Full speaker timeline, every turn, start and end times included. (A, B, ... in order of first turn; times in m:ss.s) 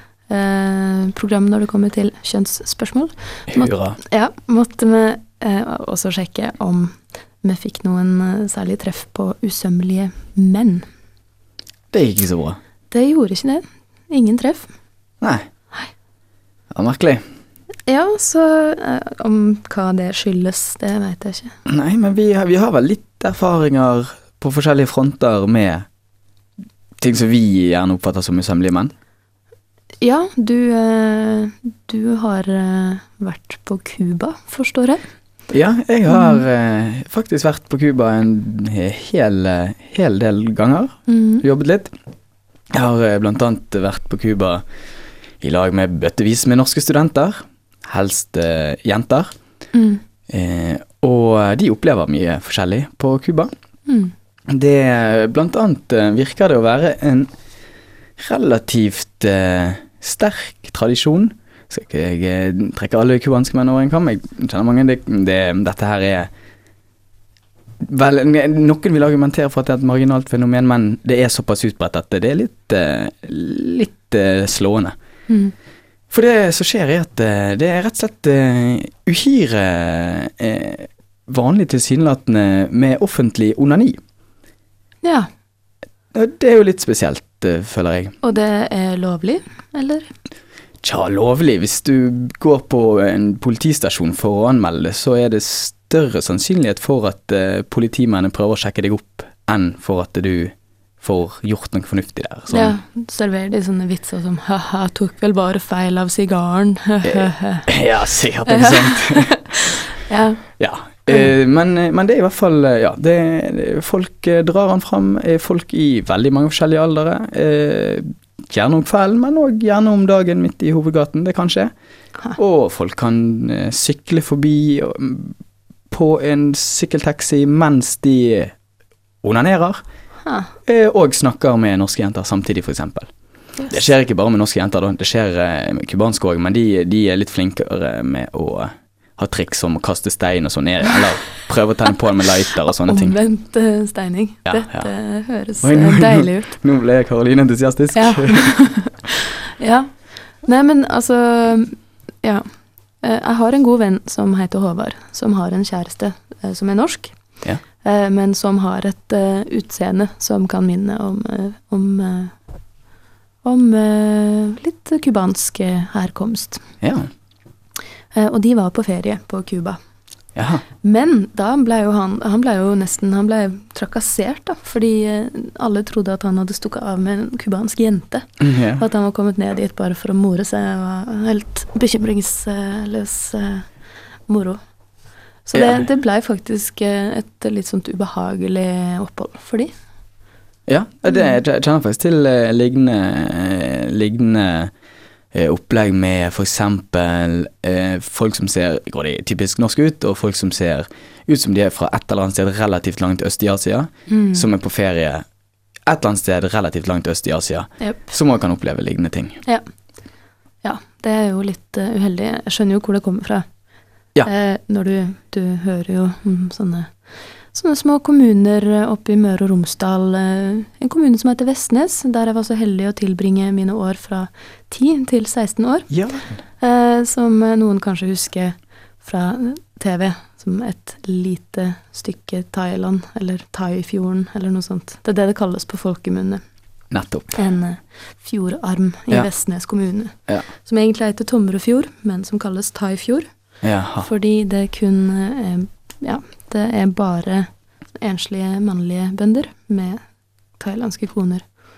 0:00.3-0:10.9 A
0:03.5-0:04.0 B
0:11.9-0:12.6 B
0:12.9-0:14.7 A
0:15.2-0:15.4 B
0:16.7-0:17.2 B
0:17.9-0:21.6 A
0:21.6-0:25.9 B
0:27.0-0:28.9 B
0:30.0-0:35.0 A
0:35.5-0:41.9 B
0:36.1-0:36.4 A
0:41.1-0:41.4 A
0:42.7-0:44.6 B
0:45.4-0:49.3 B
0:49.7-0:50.0 A
0:50.3-0:53.5 B
0:53.8-0:54.1 A
0:54.5-0:57.3 B
0:58.2-1:06.3 B
1:07.8-1:14.9 B
1:15.3-1:15.5 A
1:16.1-1:24.0 B
1:25.0-1:25.3 A
1:26.1-1:28.1 B
1:28.2-1:30.1 A
1:30.8-1:42.8 B
1:42.5-1:47.7 A
1:47.0-1:49.5 B
1:48.5-1:51.3 A
1:50.6-2:01.7 B
2:02.4-2:05.3 B
2:05.9-2:08.5 B
2:09.2-2:09.8 B
2:10.2-2:10.5 A
2:10.6-2:13.1 B
2:13.7-2:23.2 B
2:22.8-2:26.6 A
2:24.4-2:24.9 B
2:25.6-2:28.5 B
2:27.9-2:42.4 A
2:43.4-2:46.6 A
2:46.8-2:47.1 B
2:48.1-2:49.8 A
2:50.3-2:50.6 B
2:50.8-3:03.7 A
2:58.4-2:58.8 B
3:04.2-3:04.6 A
3:05.4-3:09.7 A
3:05.5-3:05.8 B
3:10.7-3:14.7 B
3:15.3-3:25.2 B
3:24.1-3:24.4 A
3:25.8-3:29.4 B
3:27.8-3:28.1 A
3:30.6-3:33.6 A
3:34.2-3:37.0 A
3:37.5-3:45.9 A
3:45.9-3:46.4 B
3:46.6-3:56.4 A
3:56.9-3:57.4 B
3:57.3-4:11.5 A
4:03.6-4:04.1 B